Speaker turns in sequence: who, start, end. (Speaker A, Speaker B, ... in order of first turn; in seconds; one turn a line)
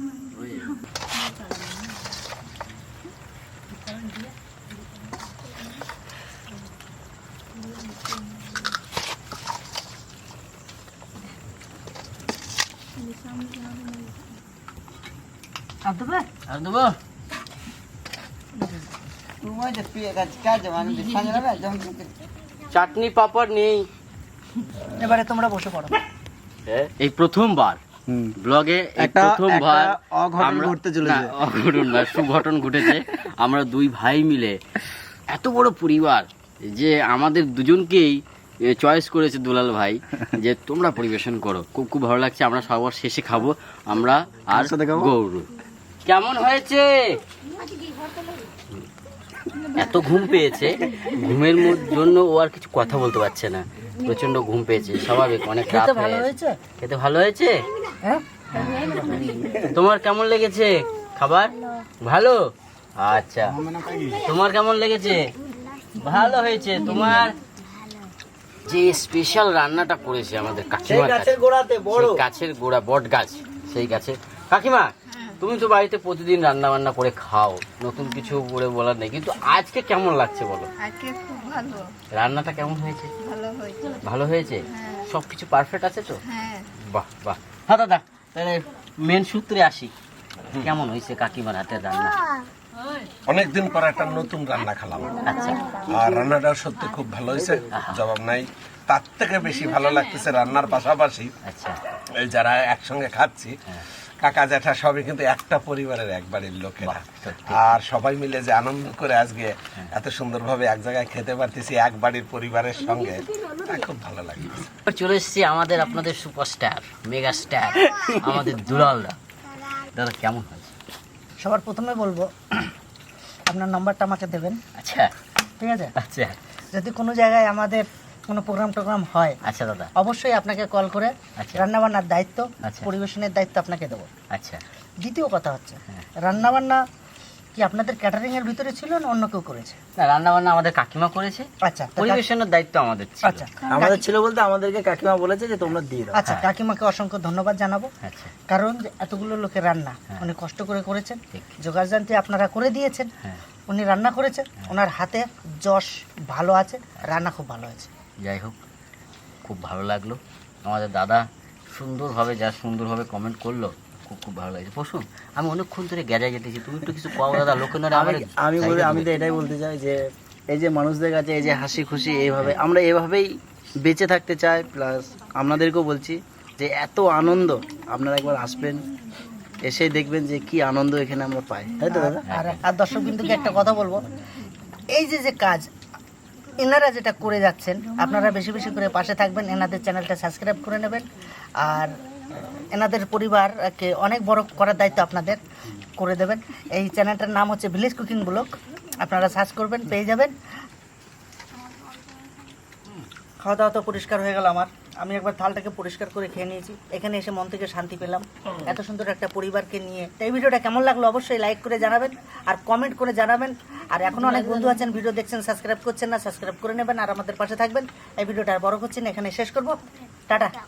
Speaker A: 0.3-0.7
Speaker B: 13.0-13.8
Speaker C: 15.8-16.3
Speaker A: 16.5-16.9
Speaker D: 19.4-22.1
Speaker A: 22.7-23.9
Speaker C: 25.0-26.0
Speaker A: 26.7-27.8
Speaker D: 28.1-28.3
Speaker A: 28.4-34.6
Speaker D: 29.0-31.4
Speaker A: 35.3-45.5
Speaker D: 44.5-45.1
Speaker A: 46.0-46.9
Speaker A: 49.8-56.3
Speaker C: 55.7-56.6
Speaker A: 56.8-57.6
Speaker A: 58.6-62.4
Speaker D: 58.7-59.7
Speaker A: 63.0-63.6
Speaker D: 63.6-64.2
Speaker A: 64.2-65.3
Speaker A: 66.0-67.4
Speaker A: 68.7-71.4
Speaker D: 70.9-72.2
Speaker A: 71.9-80.7
Speaker B: 80.8-81.9
Speaker A: 82.1-83.1
Speaker B: 83.2-84.0
Speaker A: 84.0-86.2
Speaker B: 86.3-86.7
Speaker A: 86.8-89.9
Speaker A: 90.6-92.2
Speaker E: 93.3-95.3
Speaker A: 95.2-95.7
Speaker E: 95.9-101.3
Speaker A: 101.5-101.8
Speaker E: 102.2-103.5
Speaker E: 104.2-114.7
Speaker A: 106.8-107.8
Speaker A: 114.9-119.2
Speaker A: 119.9-120.7
Speaker C: 121.4-122.6
Speaker C: 123.5-124.6
Speaker A: 124.8-125.1
Speaker C: 125.6-125.9
Speaker A: 126.0-126.4
Speaker C: 126.7-129.4
Speaker A: 129.4-129.9
Speaker C: 130.0-134.1
Speaker A: 131.4-131.6
Speaker A: 132.6-132.9
Speaker A: 134.3-134.6
Speaker C: 135.0-136.8
Speaker C: 137.6-139.8
Speaker A: 140.0-141.5
Speaker C: 141.6-142.2
Speaker A: 142.0-143.5
Speaker C: 143.2-144.0
Speaker D: 143.7-146.2
Speaker C: 146.1-147.9
Speaker A: 148.0-148.3
Speaker C: 148.5-153.1
Speaker C: 153.7-157.9
Speaker A: 158.2-158.6
Speaker A: 159.4-169.1
Speaker D: 167.9-178.9
Speaker D: 179.6-182.2
Speaker C: 181.8-184.1
Speaker A: 182.2-182.6
Speaker C: 184.9-185.7
Speaker C: 186.6-191.1
Speaker C: 191.6-191.9
Speaker C: 192.7-195.4
Speaker C: 196.0-200.3
Speaker C: 203.4-220.6
Speaker D: 214.2-214.8